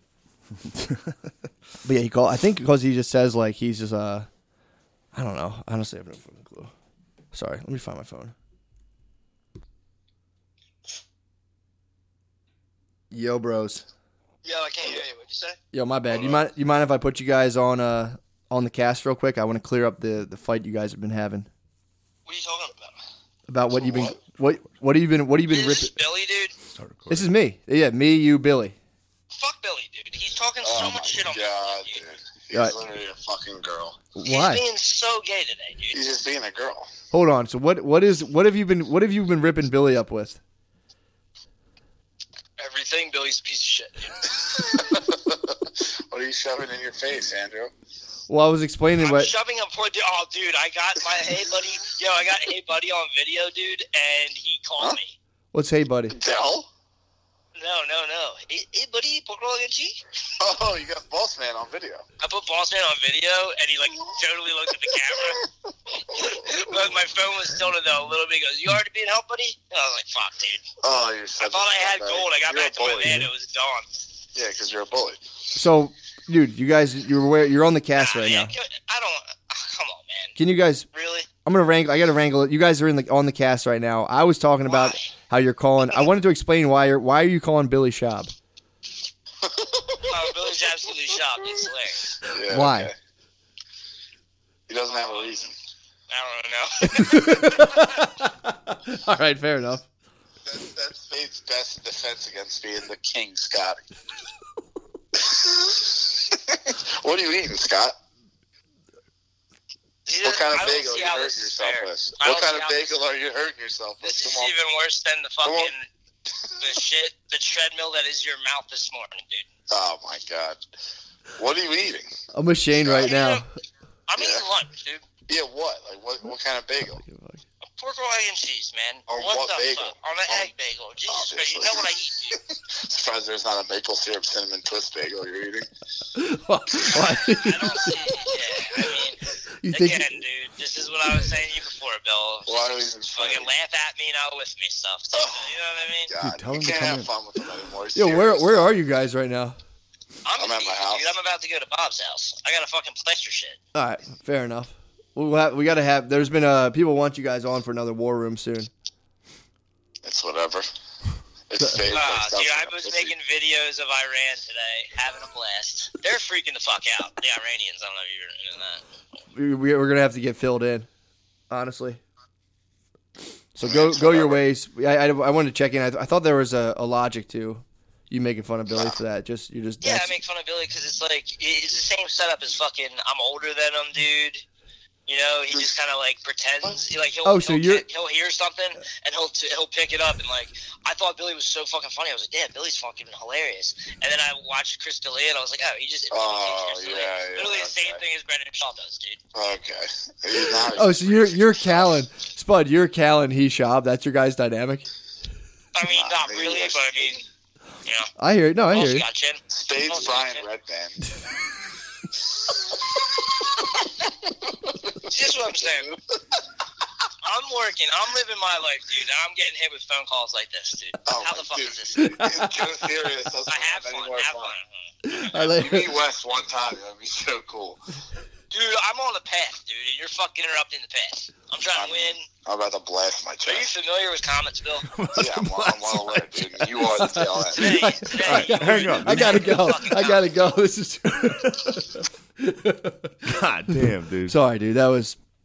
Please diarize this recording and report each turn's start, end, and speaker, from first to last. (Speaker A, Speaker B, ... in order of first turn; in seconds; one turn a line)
Speaker A: 1.8-4.3
Speaker A: 5.1-6.7
Speaker A: 7.3-8.3
Speaker A: 13.1-13.8
Speaker B: 14.4-15.6
Speaker A: 15.7-21.5
Speaker B: 22.2-22.9
Speaker A: 23.5-25.9
Speaker C: 23.7-24.1
Speaker B: 25.5-26.5
Speaker D: 26.7-27.3
Speaker A: 27.1-28.8
Speaker B: 29.3-32.0
Speaker C: 30.6-34.0
Speaker A: 34.1-34.6
Speaker B: 34.2-36.0
Speaker C: 35.9-36.9
Speaker A: 37.1-40.4
Speaker B: 42.6-44.8
Speaker C: 44.3-47.7
Speaker A: 48.3-49.3
Speaker B: 49.0-55.1
Speaker A: 55.5-56.1
Speaker C: 56.1-56.7
Speaker B: 57.6-60.0
Speaker C: 60.4-62.0
Speaker B: 62.2-65.5
Speaker C: 65.1-65.4
Speaker C: 66.1-67.0
Speaker B: 66.1-70.6
Speaker C: 70.8-73.3
Speaker B: 71.4-73.9
Speaker C: 74.3-75.2
Speaker A: 75.5-78.5
Speaker B: 78.0-80.3
Speaker A: 80.3-80.9
Speaker B: 80.9-81.3
Speaker A: 81.4-88.3
Speaker B: 84.7-85.1
Speaker C: 89.4-90.4
Speaker B: 90.0-92.1
Speaker C: 92.2-92.9
Speaker A: 92.4-92.9
Speaker C: 94.7-95.5
Speaker B: 95.0-95.2
Speaker B: 96.1-97.7
Speaker A: 96.8-99.8
Speaker C: 100.5-103.8
Speaker C: 105.1-107.9
Speaker B: 110.0-112.9
Speaker C: 110.2-114.5
Speaker B: 114.0-115.8
Speaker C: 115.4-115.7
Speaker B: 116.6-119.5
Speaker C: 119.7-120.6
Speaker C: 121.3-122.1
Speaker A: 122.3-123.5
Speaker B: 122.9-123.4
Speaker B: 124.1-125.0
Speaker C: 124.2-124.4
Speaker C: 125.3-127.0
Speaker A: 127.0-127.4
Speaker B: 127.8-132.4
Speaker C: 129.1-130.5
Speaker C: 131.1-135.7
Speaker A: 136.1-138.3
Speaker B: 136.9-146.1
Speaker A: 139.6-140.1
Speaker C: 142.4-143.5
Speaker C: 145.1-145.5
Speaker C: 146.1-148.7
Speaker D: 146.2-147.1
Speaker A: 147.9-149.6
Speaker B: 150.2-153.6
Speaker C: 150.4-151.1
Speaker A: 153.7-158.7
Speaker C: 160.0-160.7
Speaker C: 161.5-163.1
Speaker B: 161.9-168.8
Speaker A: 169.3-170.9
Speaker A: 171.5-172.0
Speaker A: 173.5-180.1
Speaker C: 173.6-174.4
Speaker C: 178.7-178.9
Speaker B: 179.8-184.4
Speaker B: 185.1-199.2
Speaker A: 187.2-187.8
Speaker C: 196.1-198.0
Speaker C: 199.3-201.9
Speaker A: 200.7-204.9
Speaker B: 205.7-207.2
Speaker C: 205.8-207.2
Speaker A: 208.2-209.0
Speaker B: 208.7-210.4
Speaker C: 209.5-211.1
Speaker C: 212.5-215.9
Speaker B: 215.0-215.9
Speaker B: 217.2-222.3
Speaker C: 221.1-224.5
Speaker A: 221.9-222.6
Speaker B: 223.5-224.7
Speaker A: 225.0-226.0
Speaker C: 225.3-227.8
Speaker B: 228.5-232.2
Speaker C: 231.7-233.7
Speaker B: 233.4-234.9
Speaker D: 234.9-236.6
Speaker C: 235.1-237.9
Speaker A: 236.8-243.1
Speaker B: 237.5-240.3
Speaker D: 238.2-239.7
Speaker D: 243.2-244.3
Speaker A: 243.7-245.2